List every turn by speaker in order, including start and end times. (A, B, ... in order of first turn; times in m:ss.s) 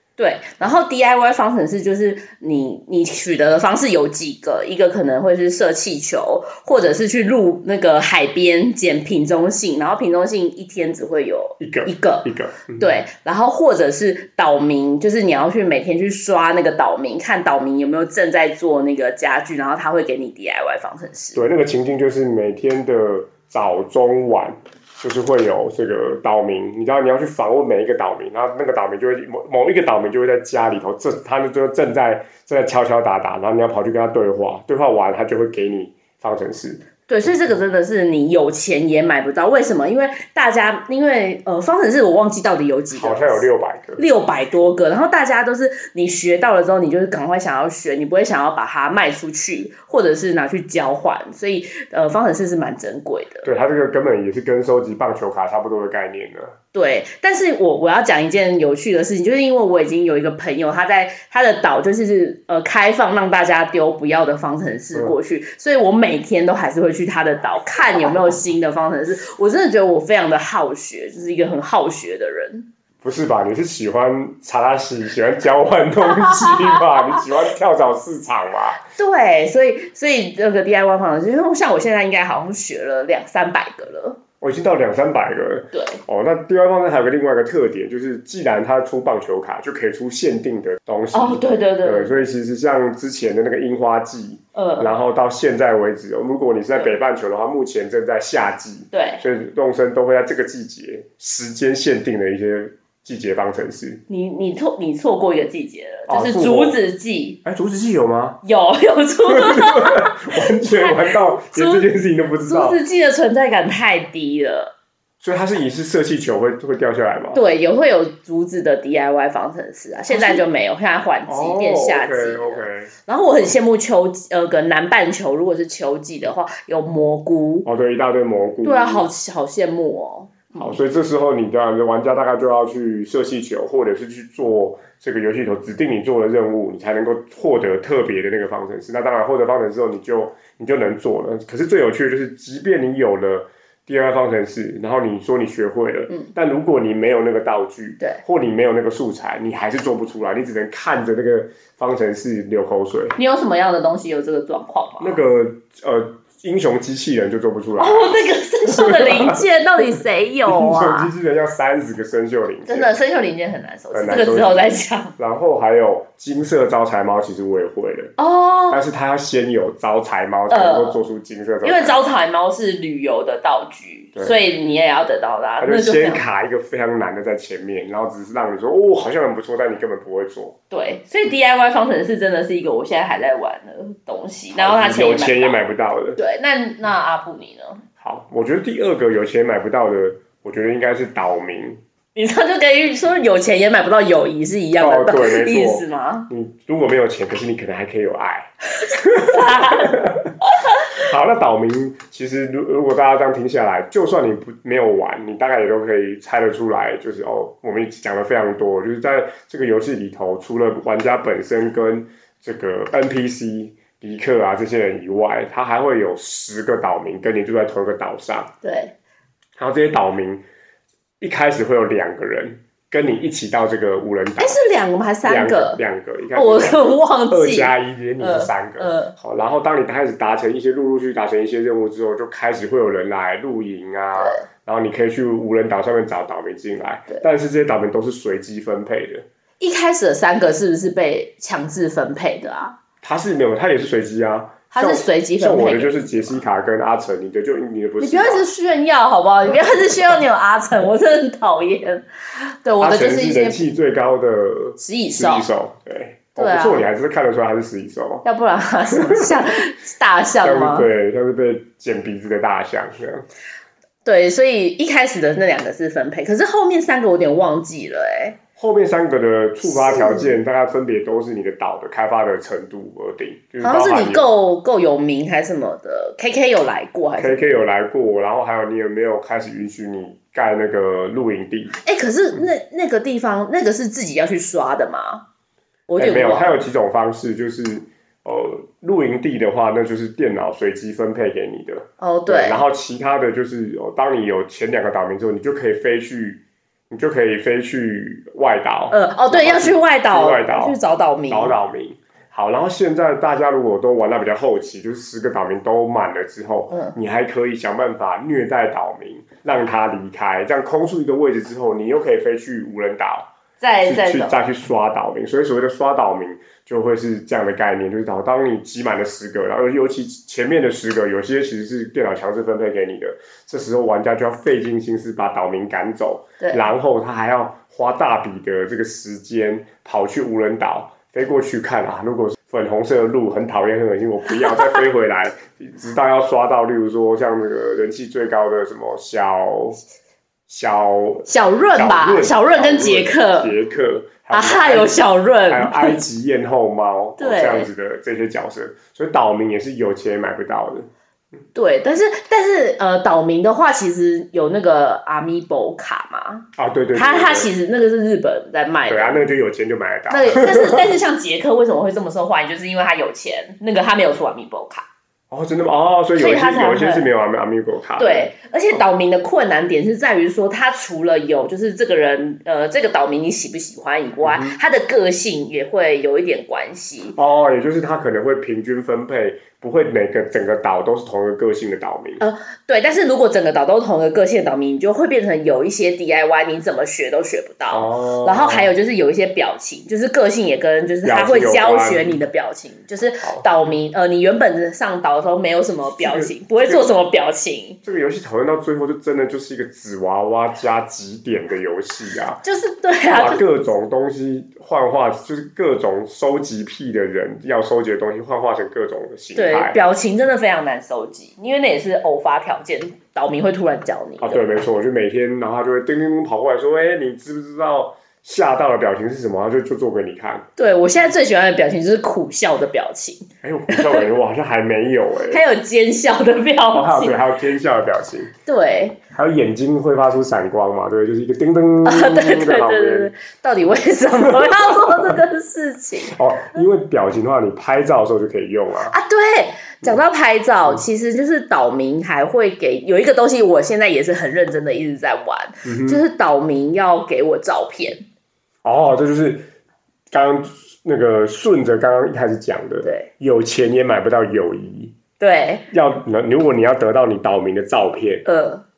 0:00.2-0:21.4 A
0:11.6-0:12.9 B
0:21.4-0:36.8 B
0:37.1-0:43.4 A
0:42.9-0:44.0 B
0:44.0-0:53.5 A
0:53.4-0:56.6 B
0:56.7-1:12.7 A
1:13.0-1:18.8 B
1:16.1-1:17.2 A
1:18.8-1:24.2 A
1:24.4-1:44.0 B
1:25.7-1:26.0 A
1:31.1-1:32.2 A
1:34.6-1:34.9 A
1:38.9-1:39.2 A
1:44.1-1:47.4 A
1:46.1-1:46.8 B
1:47.4-1:48.4 B
1:48.4-1:51.8 A
1:49.3-1:52.8 B
1:52.4-1:54.7 A
1:55.2-1:57.4 B
1:57.3-2:07.7 A
2:00.1-2:00.4 B
2:01.3-2:02.9 B
2:07.6-2:09.1 B
2:08.6-2:10.8 A
2:10.6-2:33.2 B
2:33.2-2:35.2 A
2:35.0-2:39.4 B
2:37.8-2:41.1 A
2:40.5-2:42.9 B
2:42.7-2:45.1 A
2:43.9-2:48.1 B
2:48.2-2:48.8 A
2:48.7-2:52.0 B
2:50.5-2:51.0 A
2:51.6-2:56.2 A
2:55.6-3:00.6 B
3:00.7-3:05.6 A
3:04.6-3:06.2 B
3:06.2-3:07.8 A
3:08.0-3:11.8 B
3:12.2-3:16.3 A
3:14.8-3:20.3 B
3:19.2-3:20.0 A
3:20.5-3:20.9 A
3:20.9-3:38.5 B
3:38.6-3:38.9 A
3:39.6-3:40.4 B
3:41.2-3:44.6 B
3:44.4-3:45.8 A
3:45.2-3:59.3 B
3:46.3-3:49.2 A
3:54.2-3:54.4 A
3:59.6-4:02.8 A
4:03.0-4:08.5 B
4:04.7-4:06.4 A
4:08.0-4:13.6 A
4:12.8-4:18.2 B
4:14.8-4:15.5 A
4:16.4-4:16.9 A
4:18.2-4:20.9 A
4:19.0-4:19.4 B
4:20.4-4:23.3 B
4:24.0-4:28.4 A
4:28.6-4:34.3 B
4:29.6-4:30.4 A
4:33.6-4:37.6 A
4:37.2-4:41.8 B
4:41.8-4:45.2 A
4:45.9-4:46.6 A
4:46.0-5:00.8 B
4:52.0-4:52.6 A
4:58.9-5:01.6 A
5:01.3-5:13.3 B
5:06.7-5:07.0 A
5:13.6-5:14.4 A
5:13.8-5:39.8 B
5:26.4-5:26.7 A
5:34.4-5:34.7 A
5:40.5-5:50.9 B
5:41.3-5:43.5 A
5:44.3-5:46.0 A
5:47.2-5:47.7 A
5:51.6-5:59.2 A
5:56.6-5:57.5 B
5:58.9-6:01.0 B
6:00.1-6:04.9 A
6:05.3-6:08.3 B
6:06.2-6:07.1 A
6:08.0-6:17.2 A
6:14.2-6:14.6 B
6:17.2-6:22.2 B
6:22.2-6:37.8 A
6:27.7-6:28.7 B
6:31.0-6:32.2 B
6:36.0-6:36.8 B
6:37.8-6:42.4 B
6:42.4-6:43.4 A
6:43.1-6:49.8 B
6:49.4-6:54.4 A
6:54.2-7:00.5 B
7:00.6-7:04.0 A
7:03.4-7:05.4 B
7:05.3-7:07.2 A
7:06.7-7:08.3 B
7:08.5-7:09.0 A
7:09.1-7:13.1 B
7:11.8-7:16.2 A
7:14.2-7:15.2 B
7:16.1-7:19.0 B
7:18.9-7:28.0 A
7:25.6-7:26.0 B
7:28.6-7:29.5 B
7:30.1-7:35.0 B
7:32.8-7:33.1 A
7:35.2-7:35.7 A
7:35.7-7:38.2 B
7:38.3-7:38.6 A